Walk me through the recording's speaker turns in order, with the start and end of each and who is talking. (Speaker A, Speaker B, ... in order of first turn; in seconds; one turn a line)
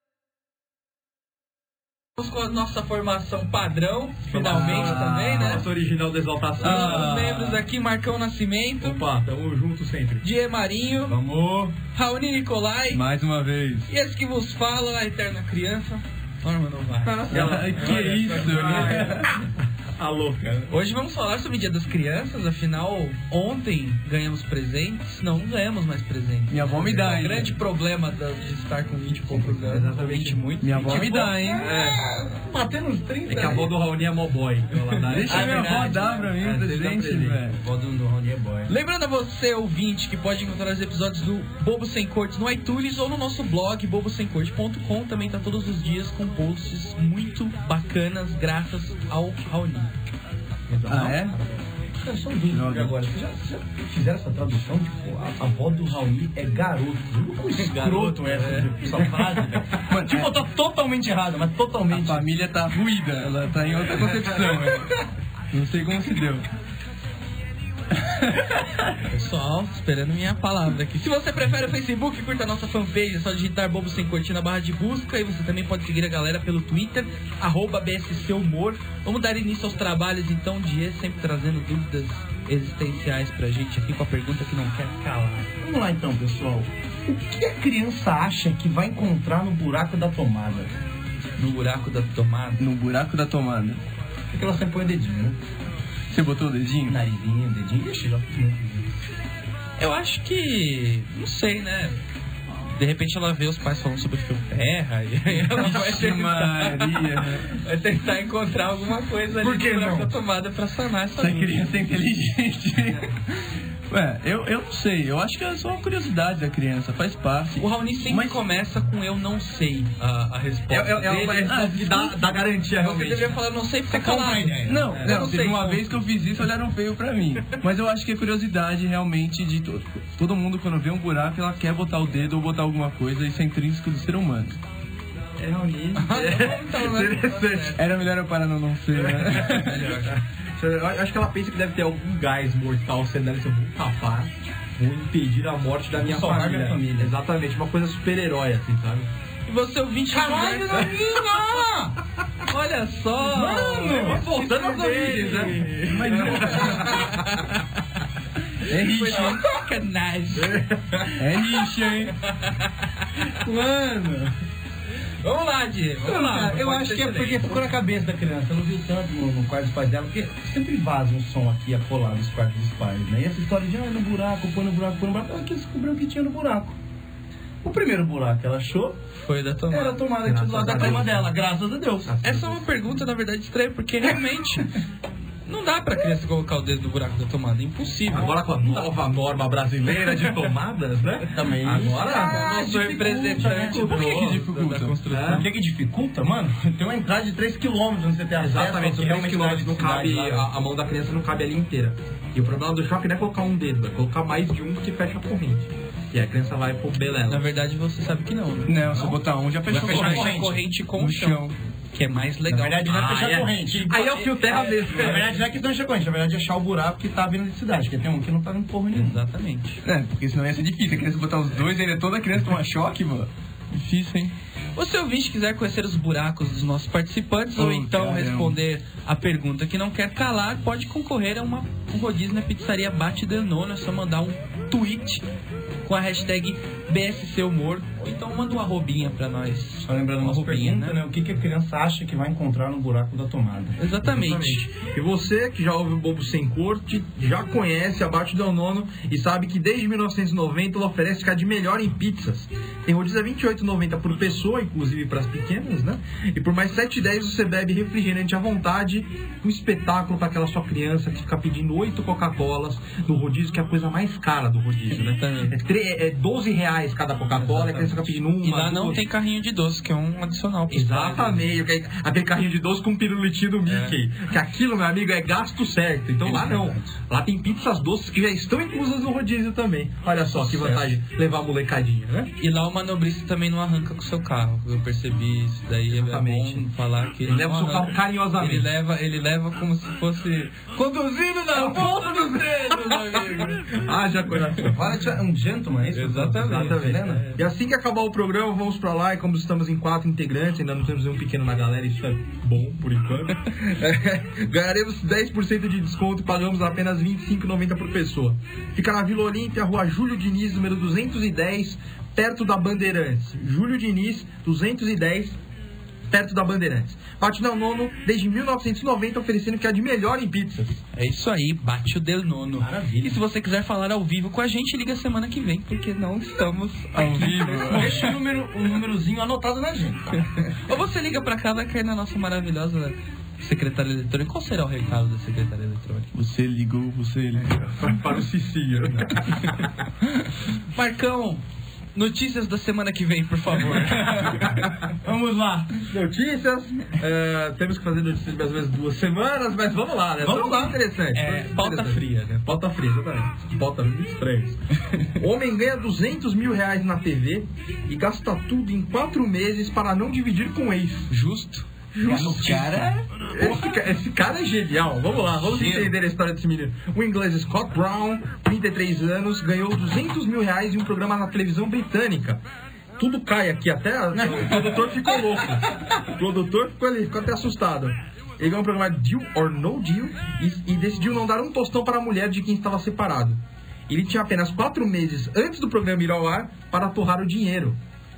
Speaker A: 2.2-5.7
Speaker B: 4.3-7.2
Speaker C: 4.4-5.6
Speaker D: 4.5-5.3
Speaker A: 6.6-9.1
Speaker D: 6.6-7.3
Speaker C: 6.7-7.5
Speaker B: 8.8-10.2
Speaker A: 10.2-11.2
Speaker C: 11.1-11.7
Speaker A: 11.9-13.0
Speaker D: 12.9-13.9
Speaker A: 13.9-17.6
Speaker B: 17.0-20.7
Speaker D: 17.3-19.4
Speaker C: 18.5-19.1
Speaker A: 20.7-31.4
Speaker D: 26.5-27.6
Speaker C: 29.3-30.1
Speaker B: 29.9-32.0
Speaker D: 30.6-31.7
Speaker C: 31.1-33.7
Speaker B: 33.3-37.4
Speaker D: 35.1-37.6
Speaker C: 35.2-36.2
Speaker C: 37.4-38.7
Speaker A: 38.7-49.9
Speaker B: 50.7-51.6
Speaker D: 50.9-51.4
Speaker C: 52.0-62.2
Speaker D: 52.5-52.9
Speaker A: 57.6-59.4
Speaker D: 59.9-60.4
Speaker D: 61.9-65.0
Speaker D: 65.5-66.5
Speaker D: 67.9-68.9
Speaker A: 69.0-85.5
Speaker C: 85.6-90.8
Speaker A: 91.4-92.6
Speaker D: 92.6-93.8
Speaker C: 94.3-95.4
Speaker D: 96.1-97.0
Speaker C: 96.9-98.9
Speaker A: 99.8-102.0
Speaker A: 102.7-111.7
Speaker D: 105.5-107.5
Speaker C: 109.4-110.1
Speaker D: 111.2-118.3
Speaker A: 117.6-121.7
Speaker B: 120.7-123.4
Speaker D: 121.4-122.2
Speaker A: 122.8-126.0
Speaker C: 123.9-124.9
Speaker D: 124.6-134.6
Speaker B: 124.9-125.2
Speaker B: 135.4-137.8
Speaker A: 135.9-137.9
Speaker D: 137.8-140.0
Speaker B: 138.9-149.1
Speaker A: 139.3-140.1
Speaker C: 145.9-147.1
Speaker A: 149.4-150.9
Speaker C: 150.1-151.9
Speaker A: 152.5-157.7
Speaker C: 153.2-154.2
Speaker B: 154.0-157.2
Speaker C: 155.7-157.1
Speaker A: 158.6-160.6
Speaker D: 158.6-159.4
Speaker B: 160.7-161.1
Speaker D: 161.2-162.2
Speaker A: 162.1-163.3
Speaker C: 163.3-164.3
Speaker A: 165.2-167.6
Speaker C: 166.0-176.8
Speaker C: 177.6-179.0
Speaker A: 179.1-181.1
Speaker C: 179.7-182.1
Speaker B: 180.2-181.3
Speaker B: 182.0-182.6
Speaker A: 182.2-184.7
Speaker A: 185.4-188.4
Speaker B: 188.1-192.5
Speaker C: 188.6-188.9
Speaker C: 189.9-190.3
Speaker C: 191.3-194.3
Speaker A: 191.9-195.5
Speaker D: 193.7-195.3
Speaker B: 195.1-195.5
Speaker C: 195.2-200.4
Speaker B: 198.4-207.5
Speaker A: 207.3-209.0
Speaker D: 208.7-210.3
Speaker A: 209.7-213.4
Speaker C: 209.7-210.6
Speaker D: 210.9-211.6
Speaker C: 212.5-219.2
Speaker B: 212.8-215.4
Speaker A: 214.1-214.9
Speaker A: 218.9-219.8
Speaker D: 219.8-224.3
Speaker A: 224.8-235.2
Speaker D: 227.6-228.6
Speaker A: 235.8-241.0
Speaker C: 239.8-243.8
Speaker A: 243.8-244.7
Speaker B: 244.0-269.0
Speaker A: 264.9-265.5
Speaker C: 267.3-268.2
Speaker A: 268.4-271.5
Speaker B: 270.7-282.3
Speaker A: 273.6-274.0
Speaker C: 276.2-277.0
Speaker A: 282.4-293.6
Speaker B: 285.9-286.7
Speaker B: 287.2-288.7
Speaker C: 291.4-293.3
Speaker B: 291.5-294.9
Speaker C: 294.6-297.2
Speaker B: 295.9-315.4
Speaker A: 296.0-297.4
Speaker B: 316.1-320.8
Speaker A: 320.9-328.1
Speaker C: 322.6-323.2
Speaker D: 326.9-328.2
Speaker C: 327.6-330.3
Speaker A: 330.5-336.1
Speaker D: 336.1-337.6
Speaker B: 337.5-339.8
Speaker A: 340.7-341.4
Speaker A: 341.9-344.6
Speaker C: 343.7-345.8
Speaker B: 345.9-354.6
Speaker C: 350.2-350.8
Speaker A: 351.1-352.4
Speaker B: 355.2-361.1
Speaker A: 361.1-361.6
Speaker B: 361.9-372.4
Speaker D: 362.0-363.6
Speaker C: 365.3-365.9
Speaker B: 373.0-387.8
Speaker C: 374.1-375.3